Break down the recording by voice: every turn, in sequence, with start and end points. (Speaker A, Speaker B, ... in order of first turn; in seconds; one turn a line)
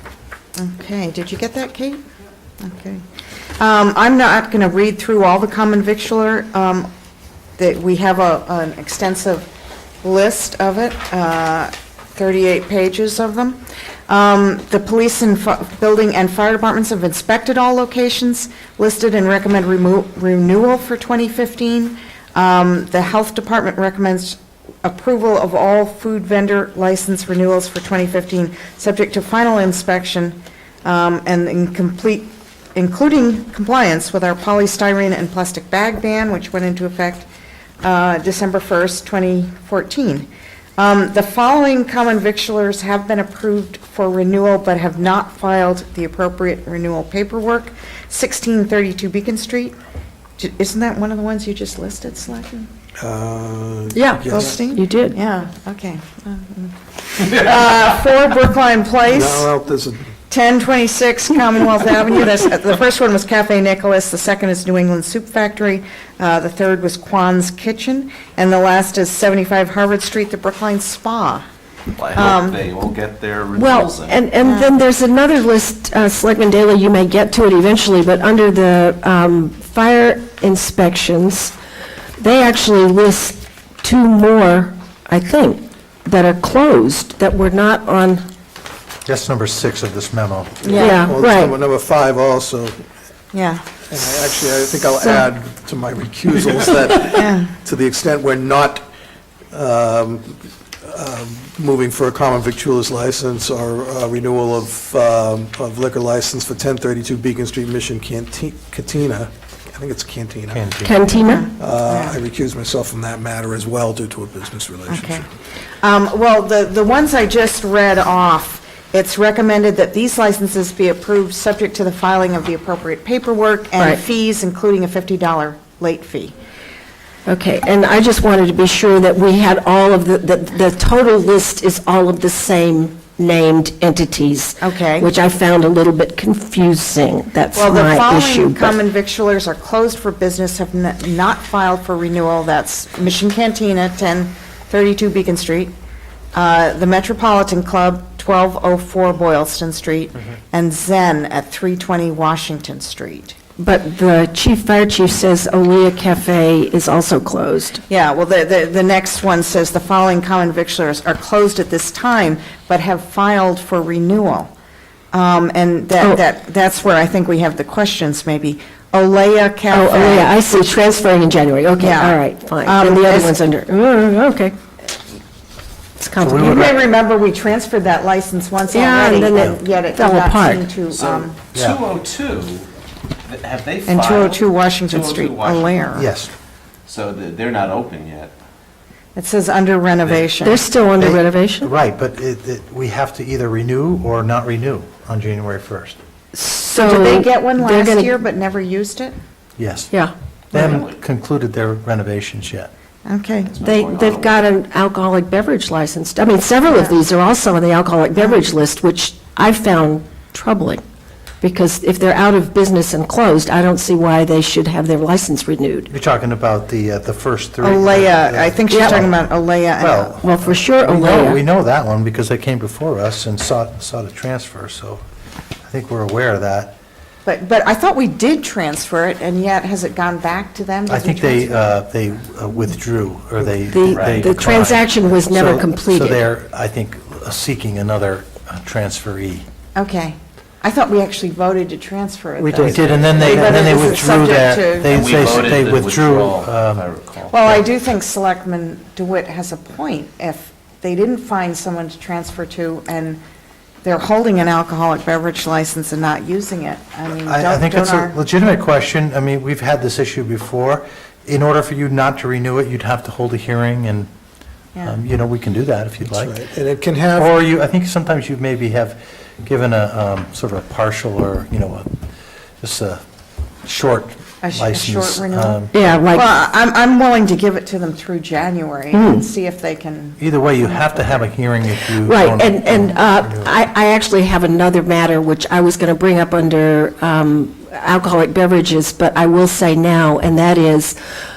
Speaker A: 0.6-2.0
Speaker A: 2.6-3.0
Speaker A: 3.6-6.9
Speaker A: 7.6-9.5
Speaker A: 10.0-37.3
Speaker A: 37.8-49.8
Speaker A: 50.4-52.7
Speaker B: 53.0-54.5
Speaker C: 53.9-55.2
Speaker A: 54.3-59.5
Speaker B: 59.1-60.1
Speaker A: 60.3-71.4
Speaker D: 72.0-74.3
Speaker A: 72.1-72.6
Speaker C: 73.5-81.5
Speaker A: 74.4-74.8
Speaker C: 82.2-88.3
Speaker E: 89.0-90.7
Speaker A: 90.6-91.0
Speaker B: 90.7-92.8
Speaker C: 90.7-91.6
Speaker A: 93.3-93.6
Speaker B: 93.9-98.9
Speaker A: 97.2-97.5
Speaker B: 99.5-110.7
Speaker E: 110.5-111.0
Speaker C: 110.8-111.5
Speaker A: 111.1-112.2
Speaker B: 111.6-115.3
Speaker A: 114.9-115.2
Speaker A: 115.8-126.3
Speaker C: 127.2-138.8
Speaker A: 134.6-135.1
Speaker A: 137.5-145.7
Speaker A: 146.3-153.3
Speaker C: 153.6-157.8
Speaker A: 157.9-164.5
Speaker A: 165.1-170.7
Speaker C: 169.7-174.5
Speaker A: 171.8-173.4
Speaker C: 176.0-176.7
Speaker E: 176.2-176.8
Speaker A: 176.4-181.4
Speaker C: 178.7-180.7
Speaker D: 180.9-182.7
Speaker E: 181.5-181.8
Speaker D: 183.3-185.8
Speaker A: 183.8-186.1
Speaker E: 185.9-186.3
Speaker D: 186.9-188.3
Speaker A: 189.2-190.6
Speaker C: 190.4-191.7
Speaker E: 191.0-196.0
Speaker C: 196.3-198.1
Speaker A: 196.7-199.2
Speaker E: 199.6-199.9
Speaker E: 200.5-202.7
Speaker D: 200.5-200.9
Speaker A: 203.0-203.5
Speaker D: 203.4-204.5
Speaker C: 203.6-210.8
Speaker A: 206.7-206.9
Speaker A: 208.2-208.4
Speaker C: 211.4-215.9
Speaker E: 215.9-219.2
Speaker A: 217.6-220.2
Speaker C: 218.7-219.0
Speaker E: 219.8-225.0
Speaker C: 220.2-221.4
Speaker E: 225.6-226.7
Speaker A: 227.2-231.7
Speaker E: 230.9-239.4
Speaker C: 233.7-236.3
Speaker D: 233.9-234.2
Speaker A: 239.7-245.6
Speaker E: 242.4-246.9
Speaker C: 243.2-244.0
Speaker D: 244.9-247.4
Speaker A: 247.3-253.2
Speaker A: 253.8-258.1
Speaker E: 257.2-264.1
Speaker E: 264.8-266.4
Speaker B: 266.0-267.4
Speaker E: 267.1-272.0
Speaker E: 272.6-273.0
Speaker E: 273.6-275.8
Speaker A: 274.4-281.1
Speaker C: 275.7-276.2
Speaker C: 278.9-279.3
Speaker E: 280.2-283.5
Speaker C: 281.9-290.9